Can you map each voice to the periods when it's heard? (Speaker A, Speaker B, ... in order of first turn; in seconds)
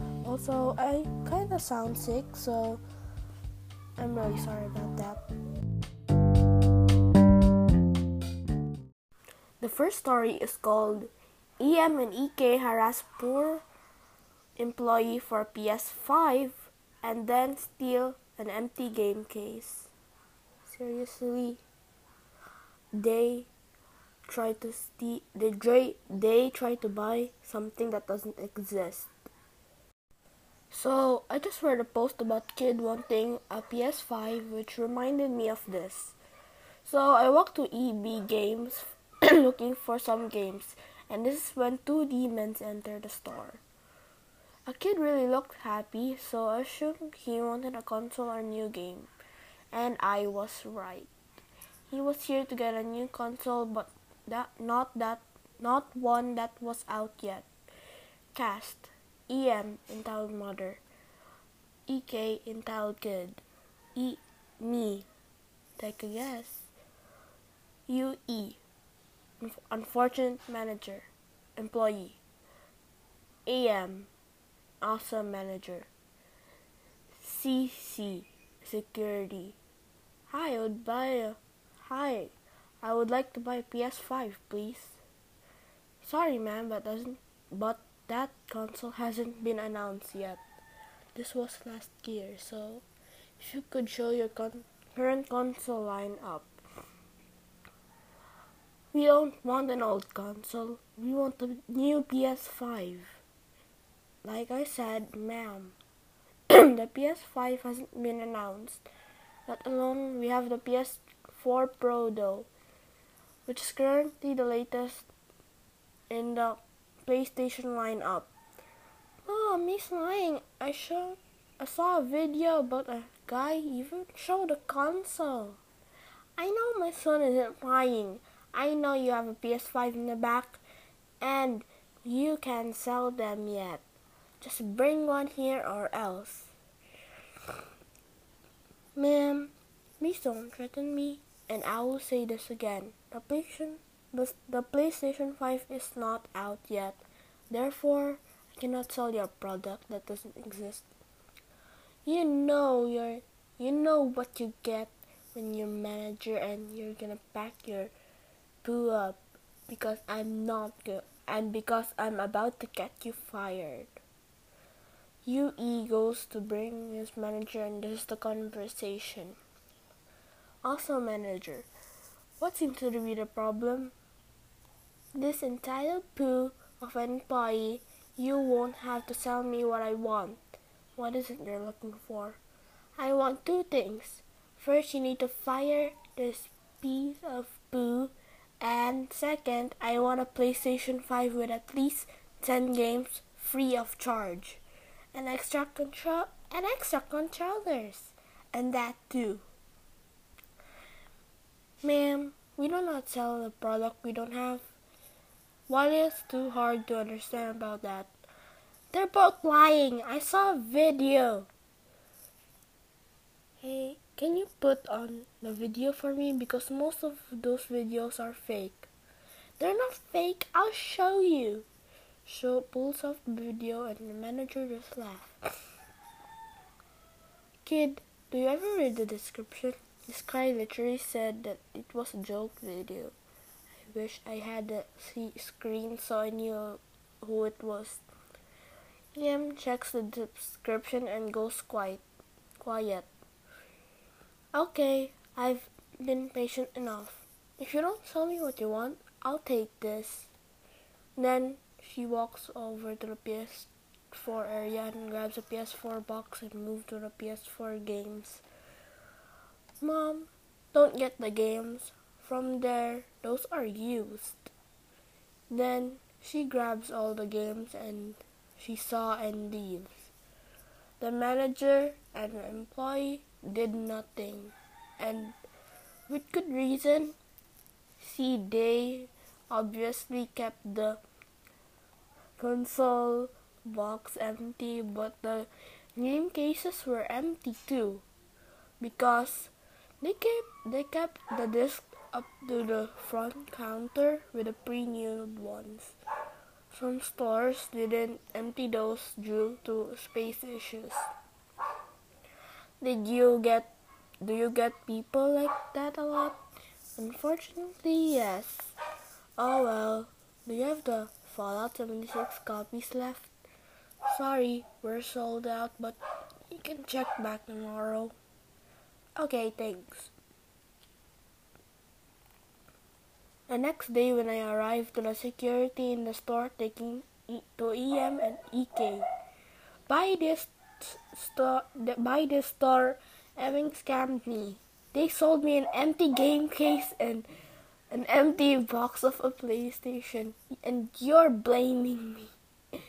Speaker A: 0.2-2.8, 4.0-5.2, 9.6-13.6, 14.6-19.9, 20.6-21.6, 22.9-23.5, 24.2-29.1, 30.7-36.1, 36.8-43.6, 44.7-49.1, 49.7-51.1, 51.9-57.5, 58.3-60.8, 61.9-63.4, 63.9-65.1, 65.8-66.7, 67.9-68.6, 69.4-72.2, 73.5-74.1, 74.8-75.9, 77.2-79.6, 80.3-85.0, 86.0-90.4, 91.1-92.8, 93.4-96.6, 98.9-103.2, 104.2-105.8, 106.5-108.8, 109.5-112.5, 113.5-115.1, 116.1-118.3, 119.2-125.6, 126.4-130.6, 131.2-133.8, 134.4-136.5, 138.9-150.9, 152.0-157.9, 158.6-164.0, 165.2-169.4, 170.6-171.7, 172.4-173.9, 175.1-182.4, 182.9-194.6, 195.1-199.4, 201.8-204.7, 205.7-208.1, 208.9-211.5, 213.6-218.9, 219.6-221.7, 222.2-225.3, 227.6-233.1, 233.8-238.0, 239.1-242.0, 242.6-243.1, 244.5-250.3, 251.2-258.4, 259.8-264.5, 265.5-270.1, 271.0-275.3, 276.1-277.2, 278.0-281.0, 282.4-288.0, 288.8-295.9, 296.7-301.1, 302.8-306.4, 306.9-308.7, 309.4-313.3, 314.1-316.0, 316.5-318.1, 319.1-320.1, 323.5-329.1, 329.9-337.3, 337.9-342.3